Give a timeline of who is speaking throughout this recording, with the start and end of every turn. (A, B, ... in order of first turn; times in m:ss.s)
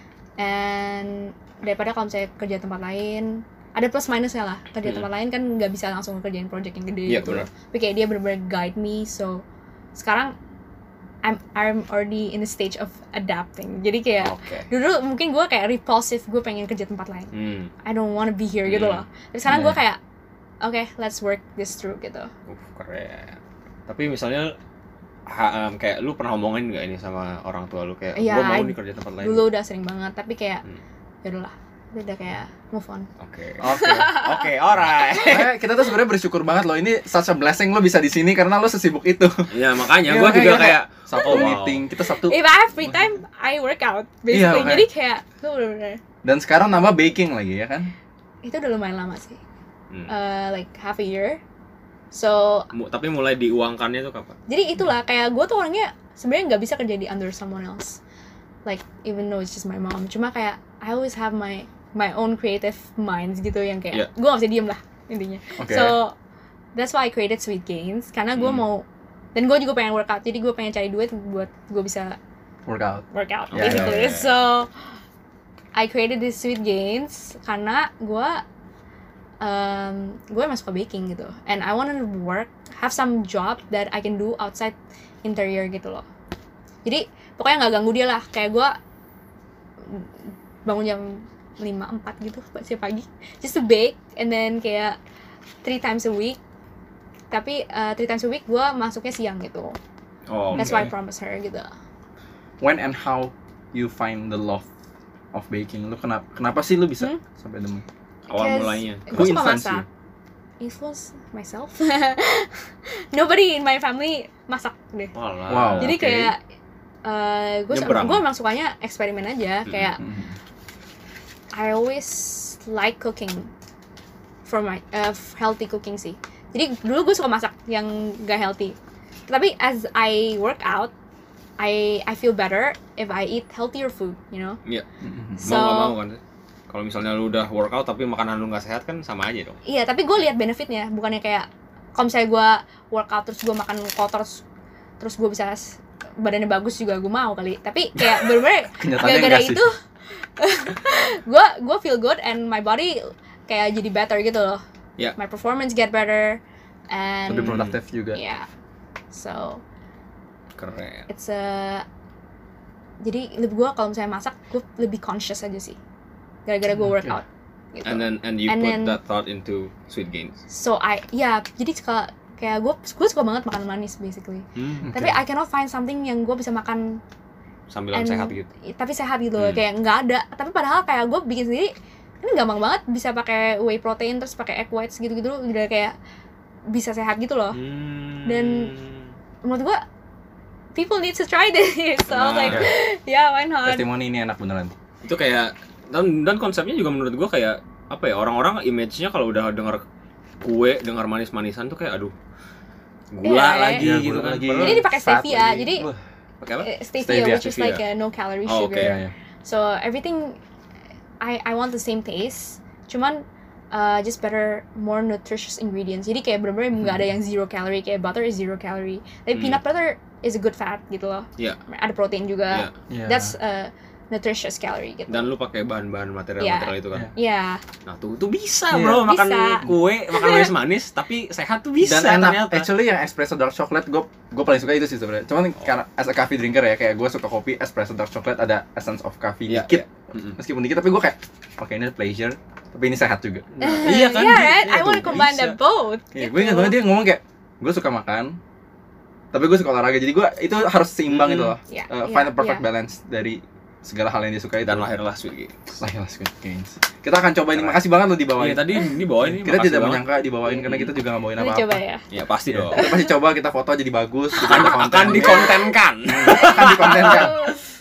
0:00.4-0:09.4 A
0:07.1-0:07.5 B
0:10.0-0:10.3 A
0:11.2-0:17.3 A
0:14.2-0:14.7 B
0:17.3-0:17.7 B
0:17.8-0:20.0 A
0:18.7-0:19.1 B
0:19.5-0:19.8 C
0:20.6-0:22.3 A
0:22.5-0:24.5 B
0:25.3-0:29.5 B
0:28.2-0:30.6 A
0:31.2-0:33.1 A
0:33.2-0:35.5 B
0:33.6-0:34.2 C
0:33.7-0:34.5 A
0:35.2-0:43.0 C
0:39.5-0:41.8 B
0:41.2-0:41.5 A
0:42.2-0:46.0 A
0:44.3-0:44.9 C
0:46.2-0:47.9 C
0:48.4-0:49.4 A
0:50.1-0:51.4 A
0:52.1-0:52.7 A
0:52.7-0:54.4 B
0:54.5-0:58.0 A
0:58.6-1:06.2 A
1:05.6-1:06.0 C
1:06.8-1:12.2 A
1:08.4-1:08.6 B
1:12.7-1:14.1 C
1:13.1-1:14.7 A
1:13.5-1:14.4 B
1:15.8-1:18.4 A
1:19.4-1:26.0 A
1:26.8-1:28.8 A
1:30.7-1:35.0 A
1:35.6-1:36.4 A
1:37.3-1:39.8 A
1:40.3-1:40.9 B
1:40.5-1:40.9 C
1:40.6-1:41.7 A
1:42.6-1:44.7 C
1:45.3-1:47.8 C
1:48.3-1:49.4 B
1:48.3-1:49.9 A
1:49.1-1:49.9 C
1:50.6-1:55.2 A
1:55.2-1:56.3 B
1:55.5-1:56.3 C
1:55.8-1:56.4 A
1:57.0-2:00.0 A
1:57.7-1:58.3 B
2:00.0-2:00.4 C
2:01.5-2:03.5 A
2:04.5-2:08.8 A
2:09.3-2:10.9 A
2:11.6-2:14.6 A
2:15.0-2:15.4 C
2:15.4-2:16.0 A
2:15.4-2:19.6 B
2:19.7-2:24.4 A
2:25.0-2:29.8 A
2:28.7-2:29.6 C
2:30.4-2:34.6 A
2:35.2-2:36.4 A
2:36.9-2:38.5 A
2:37.3-2:38.2 C
2:37.3-2:37.7 B
2:39.1-2:39.6 A
2:40.6-2:41.1 B
2:41.1-2:41.8 A
2:43.0-2:45.8 A
2:46.5-2:49.0 A
2:46.7-2:47.2 C
2:47.8-2:50.4 B
2:50.5-2:57.0 A
2:54.6-2:54.9 B
2:54.8-2:55.2 C
2:57.7-2:58.5 B
2:57.9-3:06.0 A
2:59.4-2:59.6 B
3:06.7-3:07.6 A
3:07.5-3:09.1 B
3:08.2-3:08.7 A
3:09.4-3:09.8 A
3:10.8-3:13.8 A
3:12.1-3:12.6 B
3:13.7-3:14.7 C
3:15.0-3:19.8 B
3:20.4-3:22.1 B
3:23.1-3:26.7 B
3:23.2-3:23.9 A
3:23.8-3:25.9 C
3:24.6-3:25.9 A
3:26.6-3:30.4 A
3:27.0-3:27.4 C
3:27.2-3:27.8 B
3:28.5-3:29.0 B
3:28.8-3:29.1 C
3:31.2-3:45.3 A
3:36.8-3:37.1 C
3:39.3-3:39.6 B
3:42.9-3:43.3 C
3:45.1-3:47.1 B
3:46.4-3:47.6 A
3:47.9-3:52.7 B
3:48.7-3:49.1 C
3:48.8-3:50.5 A
3:51.8-3:59.8 C
3:59.5-4:00.4 B
4:00.4-4:04.0 C
4:03.5-4:05.6 B
4:03.6-4:06.8 A
4:06.1-4:08.4 C
4:09.3-4:14.9 C
4:11.1-4:11.6 B
4:11.7-4:12.6 A
4:14.6-4:15.8 B
4:15.8-4:21.8 C
4:17.5-4:17.8 B
4:18.4-4:20.9 B
4:21.4-4:22.0 A
4:22.1-4:22.9 B
4:22.5-4:27.4 C
4:22.8-4:23.1 A
4:24.4-4:27.5 B
4:24.4-4:25.6 A
4:26.3-4:27.7 A